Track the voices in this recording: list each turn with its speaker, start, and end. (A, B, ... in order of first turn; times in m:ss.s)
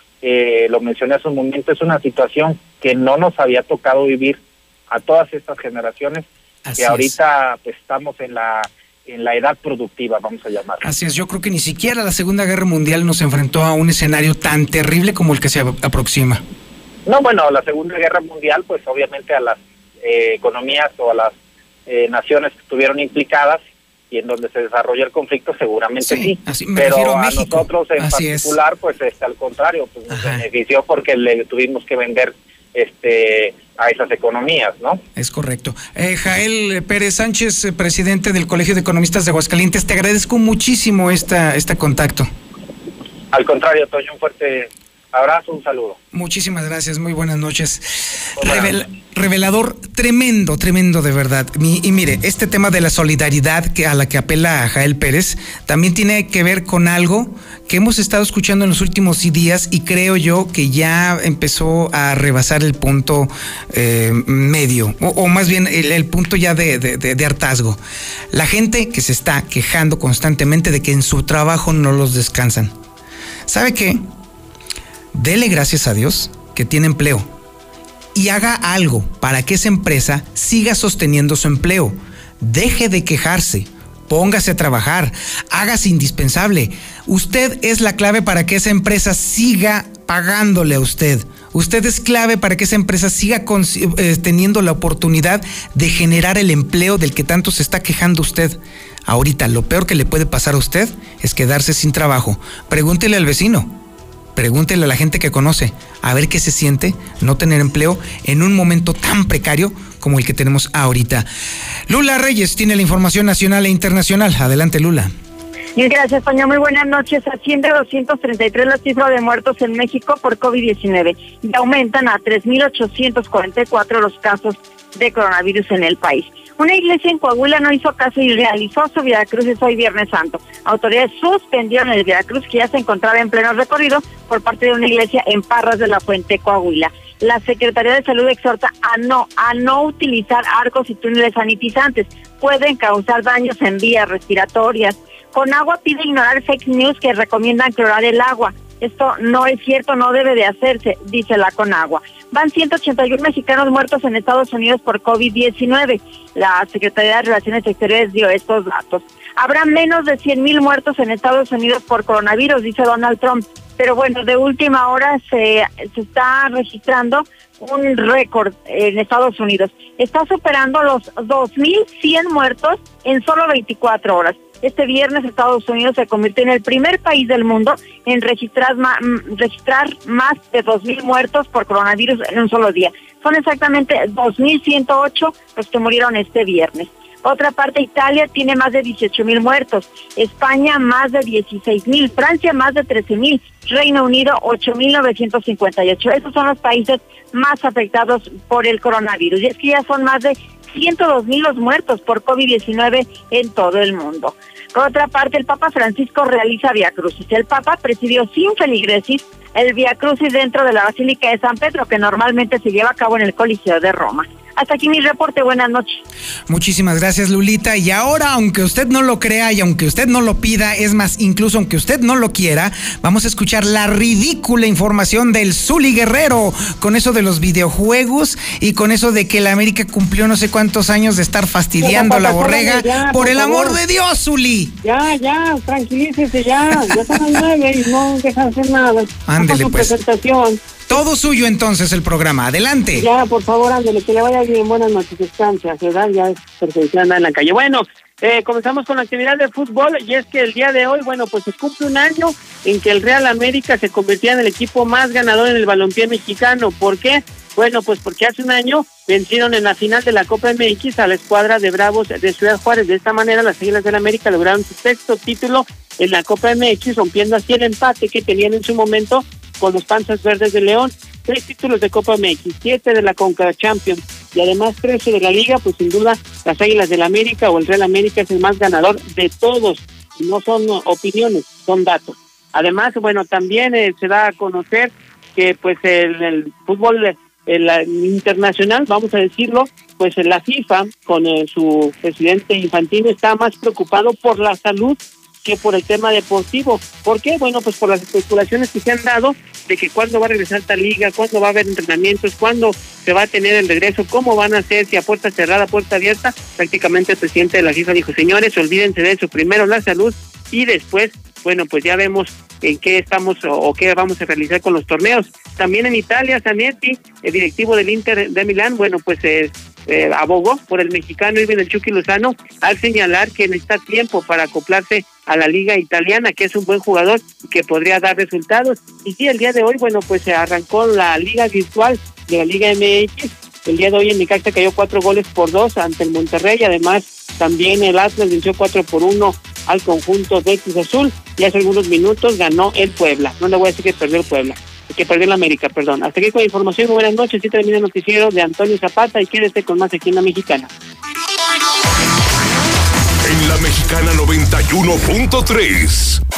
0:00.2-0:06.3 A
0:06.7-0:07.1 B
0:06.8-0:10.8 A
0:10.8-0:16.4 B
0:17.1-0:21.3 A
0:21.9-0:35.0 A
0:26.0-0:28.6 B
0:30.1-0:30.4 B
0:35.2-0:42.3 B
0:43.3-0:46.0 A
0:46.1-1:07.8 B
0:48.4-0:48.8 A
1:08.3-1:12.7 B
1:13.5-1:14.0 B
1:15.1-1:17.3 B
1:18.2-1:43.7 B
1:44.4-1:51.3 B
1:51.9-1:55.1 B
1:55.8-3:36.0 C
3:36.5-3:54.8 B
3:51.8-3:53.8 D
3:54.8-4:00.6 D
3:59.3-4:00.0 B
4:00.9-4:03.1 B
4:03.0-5:50.7 D
5:53.2-5:56.2 E